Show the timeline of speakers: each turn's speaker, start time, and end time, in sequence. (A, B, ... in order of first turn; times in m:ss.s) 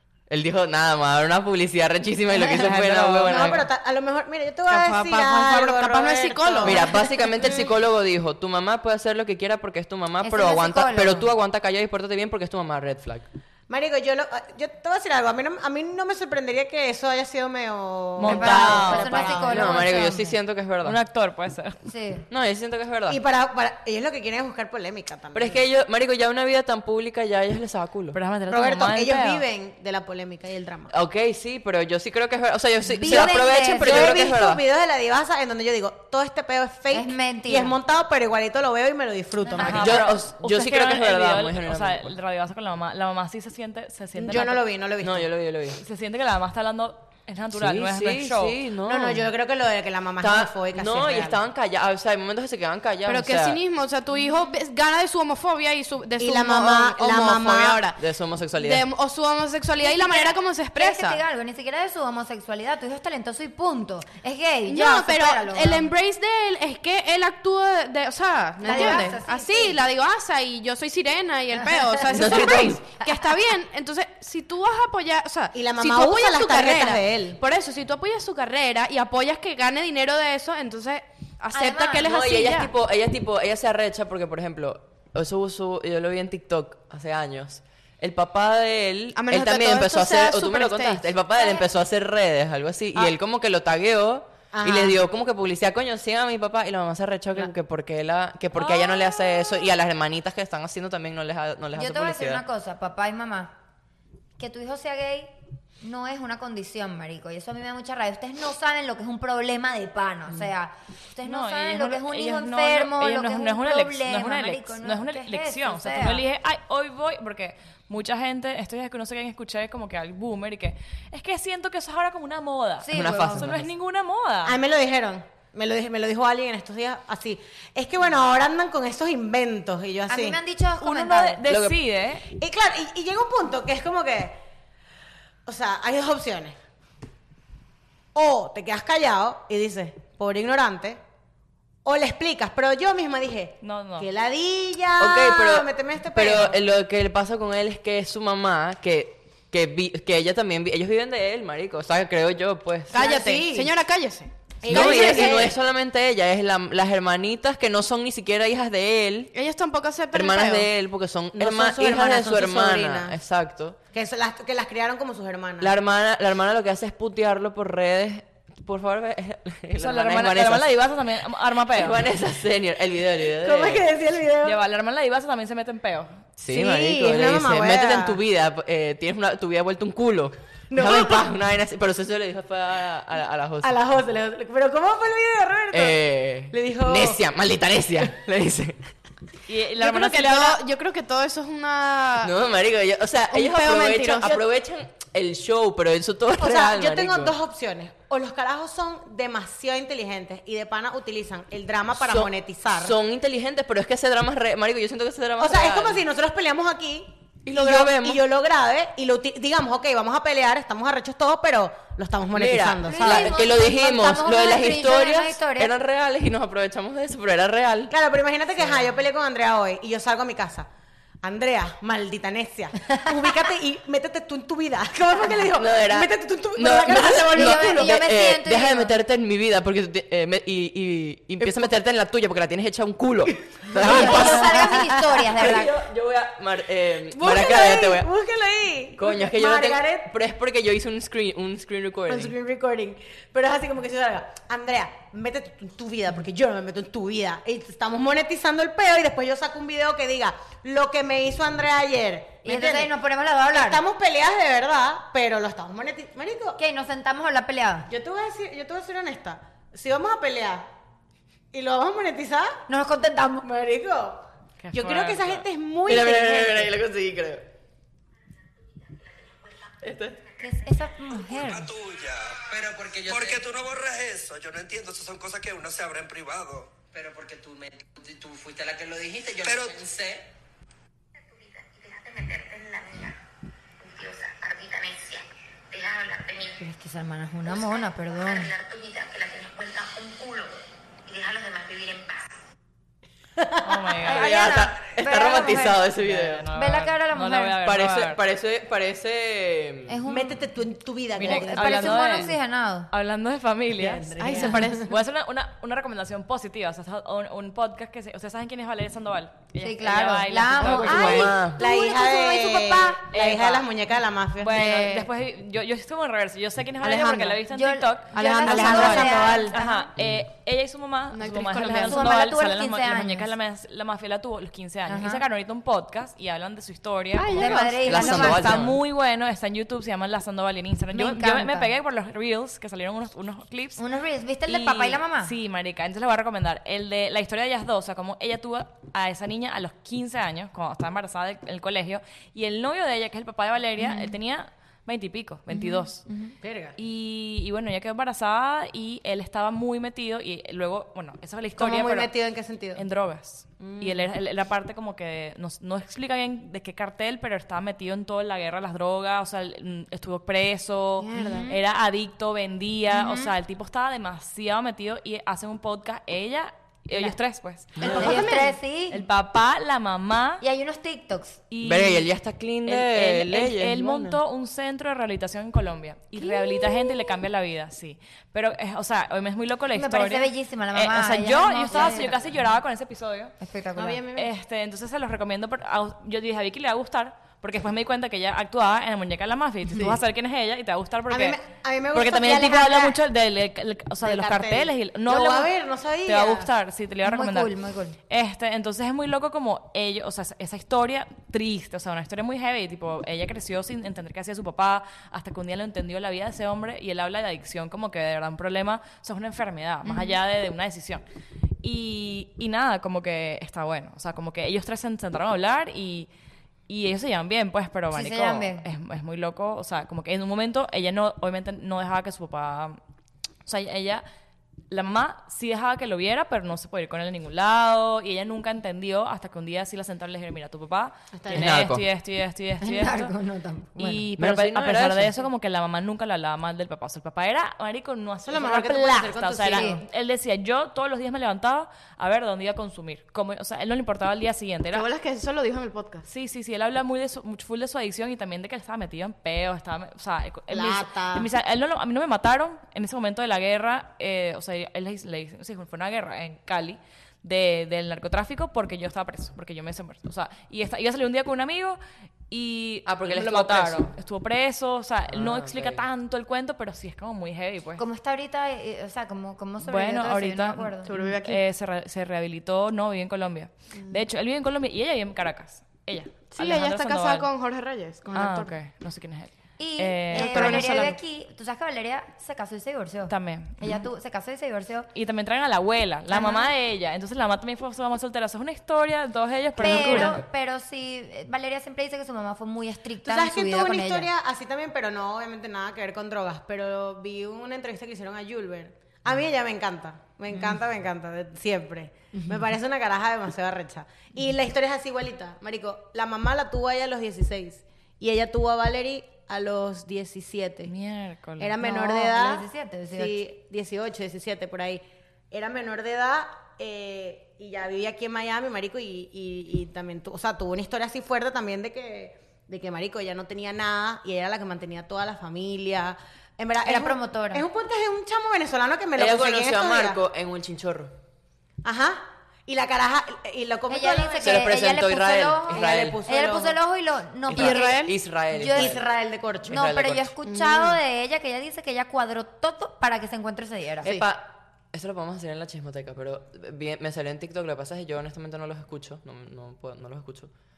0:00.3-0:03.6 A
0:02.3-0:03.7 B
0:03.2-0:06.9 C
0:04.7-0:07.0 D
0:06.6-0:13.3 A
0:10.2-0:11.3 E
0:13.7-0:19.9 C
0:18.2-0:19.4 B
0:18.2-0:20.4 E
0:19.4-0:21.0 A
0:20.8-0:21.8 B
0:21.8-0:22.3 E
0:22.3-0:23.2 A
0:23.1-0:25.6 C
0:25.3-0:28.2 A
0:28.1-0:29.4 B
0:28.5-0:30.9 C
0:30.9-0:34.6 A
0:32.9-0:34.2 E
0:33.0-0:40.1 C
0:36.9-0:37.8 E
0:39.4-0:39.8 E
0:39.6-0:44.6 B
0:39.7-0:42.2 A
0:44.2-0:45.3 C
0:45.0-0:45.8 A
0:45.8-0:48.6 B
0:47.5-0:49.3 A
0:48.8-0:51.4 C
0:50.2-0:53.6 A
0:53.1-0:58.0 D
0:56.2-0:57.9 C
0:58.0-0:58.9 A
0:58.6-1:01.2 D
0:59.8-1:05.9 E
1:04.7-1:22.7 D
1:08.6-1:09.8 E
1:08.7-1:09.2 C
1:11.6-1:12.3 E
1:12.1-1:12.8 A
1:12.3-1:12.7 C
1:15.5-1:17.4 C
1:21.5-1:22.1 E
1:22.0-1:42.4 A
1:29.2-1:31.6 D
1:34.5-1:35.0 C
1:38.6-1:39.5 B
1:41.8-1:43.5 E
1:44.4-1:56.2 E
1:51.2-2:04.6 B
2:02.8-2:03.5 E
2:02.9-2:03.7 A
2:04.4-2:10.4 C
2:10.1-2:11.4 E
2:10.8-2:12.3 B
2:11.5-2:11.8 A
2:12.3-2:14.4 C
2:15.5-2:16.6 C
2:18.1-2:21.0 C
2:21.8-2:26.6 C
2:23.6-2:24.1 B
2:25.0-2:33.1 A
2:32.9-2:33.7 C
2:32.9-2:35.4 D
2:34.6-2:35.5 C
2:34.7-2:39.3 A
2:39.3-2:40.7 D
2:40.1-2:43.8 A
2:41.3-2:43.2 C
2:43.9-2:45.7 C
2:45.6-2:50.7 A
2:49.8-2:52.0 B
2:51.7-2:53.9 A
2:53.3-2:54.6 C
2:54.4-2:56.2 B
2:56.4-3:03.8 A
2:56.5-2:58.2 C
3:00.7-3:01.3 C
3:03.6-3:06.0 C
3:05.7-3:08.9 A
3:06.5-3:07.2 C
3:09.5-3:10.6 B
3:09.8-3:12.4 D
3:12.2-3:17.4 A
3:13.3-3:14.4 D
3:16.4-3:23.0 C
3:22.0-3:26.1 A
3:25.4-3:33.5 C
3:27.4-3:28.2 A
3:32.3-3:37.9 A
3:32.8-3:35.7 E
3:37.9-3:40.7 C
3:38.6-3:38.9 A
3:41.2-3:48.0 C
3:45.5-3:58.1 A
3:47.3-3:48.9 E
3:53.7-3:55.5 C
3:53.8-3:55.7 E
3:57.2-4:00.1 C
3:59.0-4:02.4 A
4:02.1-4:12.9 C
4:12.4-4:13.8 E
4:13.5-4:16.6 C
4:16.6-4:17.9 E
4:17.9-4:20.7 C
4:21.5-4:22.6 C
4:22.7-4:23.5 E
4:23.4-4:26.8 C
4:24.6-4:25.4 B
4:25.8-4:27.5 A
4:29.8-4:30.2 A
4:30.3-4:31.7 E
4:31.2-4:36.8 F
4:32.4-4:33.5 G
4:36.9-4:40.3 G
4:39.4-4:39.8 F
4:41.3-4:43.2 E
4:43.8-4:50.5 E
4:51.1-4:52.3 E
4:53.4-4:53.9 C
4:53.6-4:54.6 B
4:54.0-4:55.9 E
4:54.1-4:56.4 A
4:56.0-4:58.2 B
4:56.5-4:57.6 E
4:57.6-5:00.0 A
4:59.9-5:00.5 E
5:00.0-5:02.1 C
5:01.2-5:02.4 B
5:01.2-5:02.9 E
5:02.9-5:11.3 B
5:03.8-5:04.9 C
5:04.2-5:04.9 D
5:04.3-5:04.5 E
5:09.6-5:13.0 E
5:10.6-5:15.1 C
5:10.8-5:11.6 A
5:13.1-5:13.7 B
5:14.4-5:33.8 B
5:16.8-5:19.9 E
5:18.1-5:19.6 C
5:20.0-5:20.2 A
5:21.1-5:22.2 D
5:21.8-5:23.3 E
5:24.9-5:25.2 E
5:27.2-5:28.7 E
5:27.8-5:28.8 A
5:30.9-5:31.7 E
5:33.8-5:35.3 E
5:34.5-5:46.1 B
5:43.8-5:44.2 E
5:45.5-5:46.4 E
5:46.4-5:46.8 C
5:46.8-5:52.1 B
5:51.6-5:52.8 C
5:52.8-6:10.4 B
5:53.6-5:54.1 C
6:01.1-6:01.5 C
6:01.2-6:01.5 D
6:01.2-6:01.6 E
6:02.9-6:03.3 E
6:07.8-6:09.0 E
6:07.8-6:08.5 C
6:07.8-6:08.5 D
6:10.4-6:11.4 E
6:11.5-6:12.1 B
6:11.6-6:14.2 A
6:12.6-6:23.4 B
6:19.7-6:22.4 E
6:21.7-6:22.0 C
6:23.4-6:24.0 E
6:23.8-6:24.3 C
6:24.1-6:31.4 B
6:29.7-6:30.0 C
6:31.1-6:33.0 C
6:31.9-6:35.5 B
6:34.0-6:36.5 C
6:36.0-6:51.0 B
6:37.0-6:38.0 E
6:49.8-6:50.2 E
6:51.6-6:56.1 B
6:56.7-7:02.8 B
6:57.9-6:58.7 E
7:03.4-7:04.0 B
7:04.7-7:13.2 B
7:11.1-7:11.6 C
7:11.3-7:11.8 A
7:12.6-7:14.1 E
7:13.8-7:24.9 B
7:14.2-7:15.3 A
7:18.3-7:19.8 C
7:19.5-7:19.8 E
7:24.7-7:26.1 D
7:26.1-7:41.8 B
7:30.5-7:31.3 C
7:42.3-7:47.9 B
7:42.9-7:44.0 A
7:45.1-7:45.8 A
7:47.8-7:50.9 E
7:49.6-7:57.3 B
7:50.9-7:51.4 D
7:56.3-7:58.6 D
7:58.1-8:00.9 B
7:59.6-8:04.9 E
8:00.1-8:01.0 D
8:03.1-8:03.8 B
8:04.9-8:10.2 B
8:06.1-8:06.5 E
8:09.6-8:14.1 E
8:13.0-8:30.7 C
8:30.7-8:31.6 B
8:31.4-8:50.0 C
8:31.6-8:33.2 E
8:46.6-8:47.4 E
8:49.0-8:51.0 A
8:51.6-8:54.6 C
8:53.7-8:58.8 E
8:54.2-8:56.0 A
8:55.5-8:56.6 C
8:57.3-8:58.8 A
8:57.3-8:57.9 D
8:58.5-8:59.6 C
8:59.5-9:00.1 A
8:59.5-9:04.0 E
9:00.4-9:00.8 D
9:03.8-9:10.3 A